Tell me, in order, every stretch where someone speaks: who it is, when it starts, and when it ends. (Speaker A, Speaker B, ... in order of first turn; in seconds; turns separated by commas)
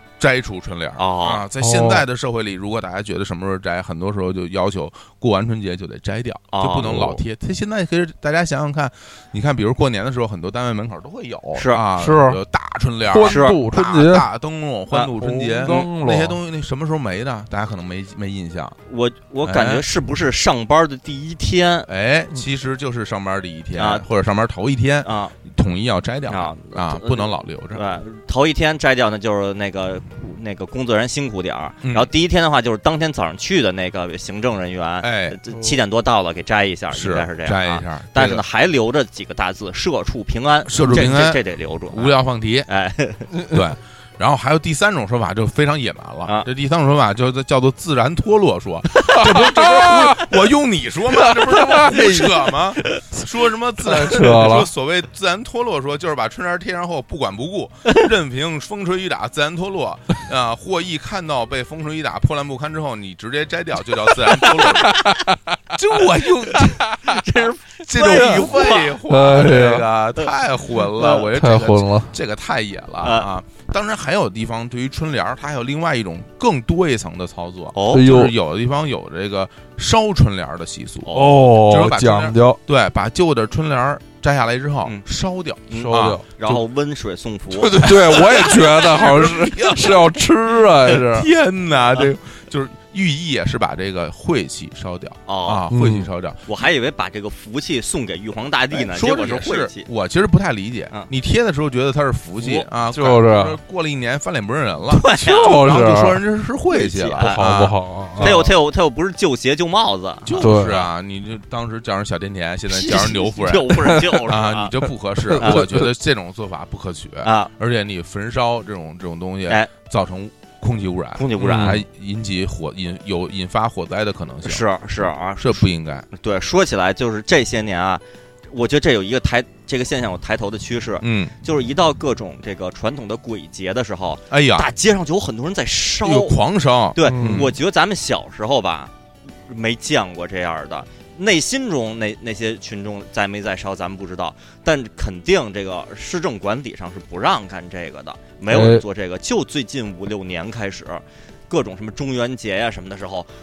Speaker A: 0.2-18.8, Speaker B: 1.0-1.4, Speaker C: 1.6-2.0, Speaker B: 6.5-7.2, Speaker B: 11.5-11.8, Speaker C: 12.0-12.4, Speaker C: 13.1-14.3, Speaker B: 13.2-13.6, Speaker C: 15.2-16.4, Speaker B: 18.9-21.9, Speaker A: 19.4-19.8, Speaker A: 21.9-27.8, Speaker B: 23.7-24.0, Speaker B: 25.0-25.4, Speaker B: 26.3-42.1, Speaker A: 31.8-32.1, Speaker A: 35.0-35.4, Speaker A: 36.9-38.4, Speaker A: 40.6-42.7, Speaker B: 42.7-43.3, Speaker A: 43.5-65.0, Speaker C: 49.0-50.2, Speaker B: 49.1-50.0, Speaker C: 51.2-52.3, Speaker C: 53.8-54.7, Speaker C: 64.9-65.3, Speaker A: 65.7-66.8, Speaker B: 66.5-69.0, Speaker A: 67.8-86.6, Speaker C: 68.0-69.8, Speaker B: 71.0-71.3, Speaker C: 71.3-72.1, Speaker B: 73.0-73.3, Speaker B: 77.7-78.0, Speaker C: 77.9-78.3, Speaker B: 81.0-81.4, Speaker C: 81.1-82.6, Speaker B: 85.7-88.3, Speaker C: 85.7-86.2, Speaker A: 87.5-90.2, Speaker C: 87.8-91.3, Speaker A: 90.9-96.5, Speaker B: 95.3-95.6, Speaker C: 95.7-96.1, Speaker B: 96.5-99.8, Speaker A: 98.7-108.5, Speaker B: 102.4-102.7, Speaker C: 102.9-103.6, Speaker B: 104.9-105.7, Speaker C: 105.2-106.2, Speaker B: 106.7-107.4, Speaker C: 107.2-108.5, Speaker B: 108.2-110.8, Speaker A: 110.2-124.6, Speaker C: 110.4-110.8, Speaker B: 112.7-114.8, Speaker C: 115.3-115.9, Speaker B: 115.3-115.7, Speaker B: 117.2-117.5, Speaker B: 121.2-121.8, Speaker C: 121.4-121.8, Speaker B: 124.4-136.4, Speaker A: 125.4-126.0, Speaker A: 131.0-131.3, Speaker A: 134.3-134.7, Speaker A: 136.0-137.6, Speaker B: 136.9-138.9, Speaker C: 137.0-137.5, Speaker B: 139.4-153.3, Speaker C: 148.5-148.8